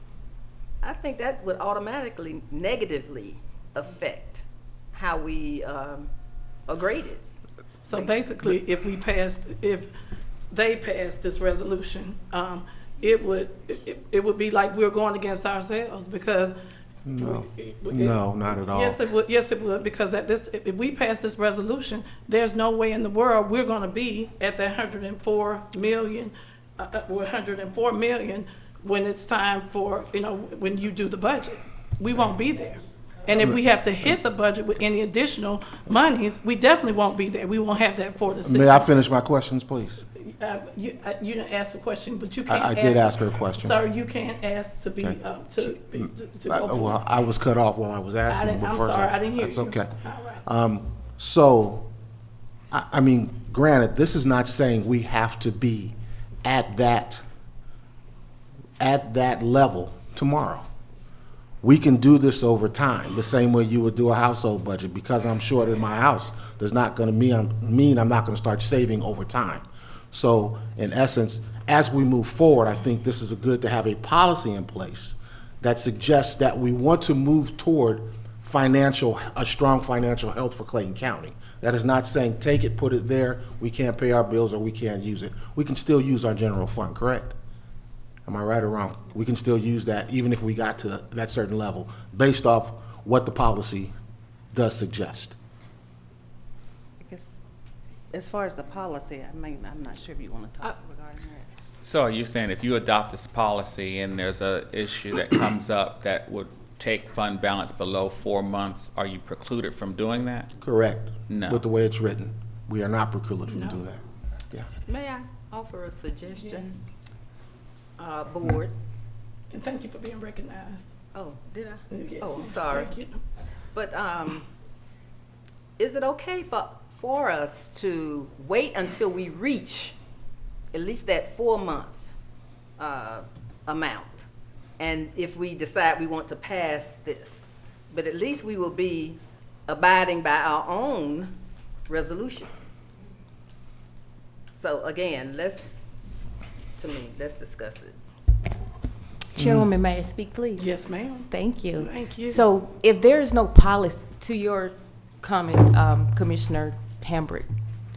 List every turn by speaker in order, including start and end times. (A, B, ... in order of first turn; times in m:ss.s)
0:00.8-0:06.1 A
0:06.7-0:07.2 A
0:07.8-0:09.9 B
0:10.5-0:16.6 B
0:17.1-0:19.0 C
0:17.2-0:38.9 B
0:38.4-0:40.0 C
0:40.3-0:47.0 B
0:42.5-0:43.8 C
0:46.0-0:49.9 C
0:48.3-0:50.4 B
0:50.4-0:51.9 C
0:52.7-0:57.2 C
0:58.8-1:00.7 C
1:01.6-1:27.4 C
1:28.3-1:33.9 C
1:34.5-1:35.4 C
1:37.0-1:37.3 D
1:38.1-1:41.6 D
1:41.8-1:50.5 E
1:50.6-1:54.7 C
1:51.3-1:51.6 E
1:53.5-1:53.8 B
1:54.9-1:56.8 A
1:58.0-1:58.7 A
1:59.5-2:00.9 B
2:01.1-2:03.0 A
2:01.9-2:03.2 B
2:03.7-2:04.5 A
2:05.8-2:10.0 A
2:10.7-2:12.1 A
2:12.8-2:14.3 A
2:14.8-2:21.3 A
2:21.9-2:22.5 A
2:24.6-2:25.8 A
2:26.8-2:28.0 A
2:29.3-2:30.7 F
2:30.6-2:32.4 B
2:31.3-2:37.5 F